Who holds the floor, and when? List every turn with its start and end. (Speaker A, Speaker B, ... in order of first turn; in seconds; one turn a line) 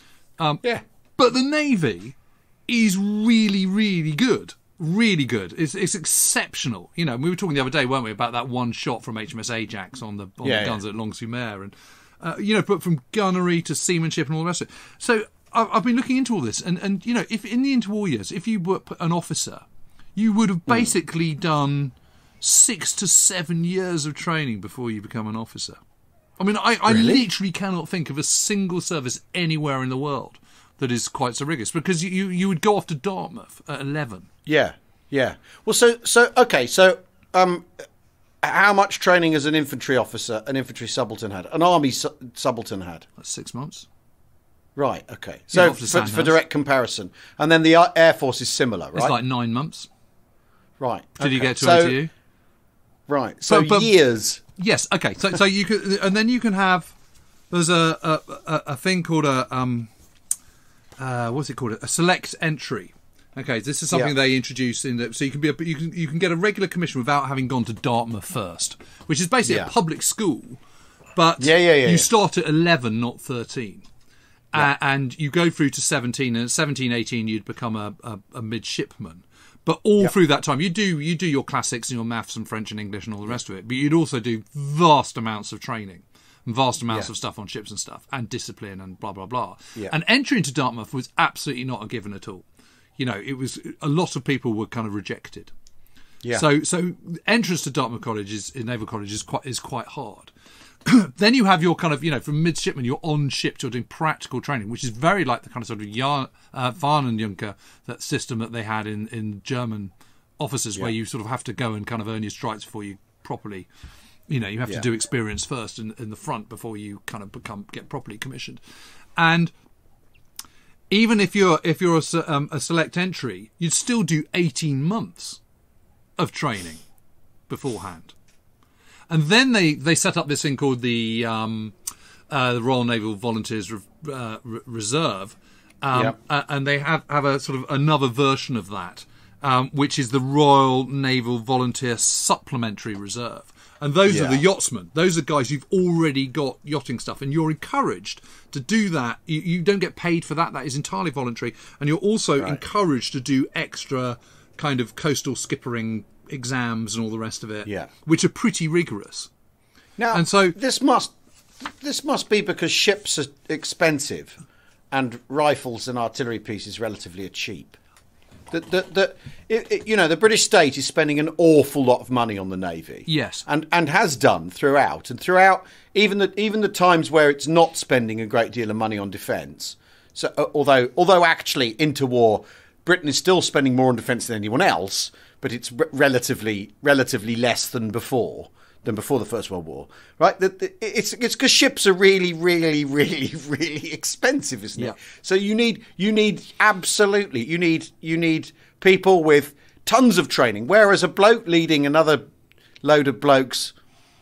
Speaker A: 1.2-2.1
Speaker A: 2.7-25.8
Speaker B: 10.4-10.8
Speaker A: 26.4-34.3
Speaker B: 26.9-27.2
Speaker B: 34.5-37.7
Speaker B: 38.4-43.1
Speaker A: 43.2-43.9
Speaker B: 44.8-49.1
Speaker A: 45.5-46.4
Speaker A: 48.9-49.9
Speaker B: 50.8-52.0
Speaker A: 51.2-52.1
Speaker B: 53.1-54.4
Speaker A: 53.5-53.9
Speaker A: 54.5-56.9
Speaker A: 57.5-59.9
Speaker A: 61.0-70.6
Speaker B: 69.4-69.7
Speaker A: 71.2-73.8
Speaker B: 71.4-72.1
Speaker A: 74.5-92.4
Speaker A: 93.0-95.5
Speaker A: 96.3-100.3
Speaker A: 100.8-113.7
Speaker A: 114.3-118.6
Speaker A: 119.2-119.5
Speaker A: 120.9-125.4
Speaker A: 126.2-126.8
Speaker A: 127.5-128.1
Speaker A: 129.1-131.8
Speaker A: 132.3-159.3
Speaker B: 144.1-144.4
Speaker B: 160.0-164.4
Speaker A: 160.1-160.6
Speaker B: 164.9-167.8
Speaker B: 168.5-202.2
Speaker A: 173.1-173.4
Speaker B: 202.8-203.7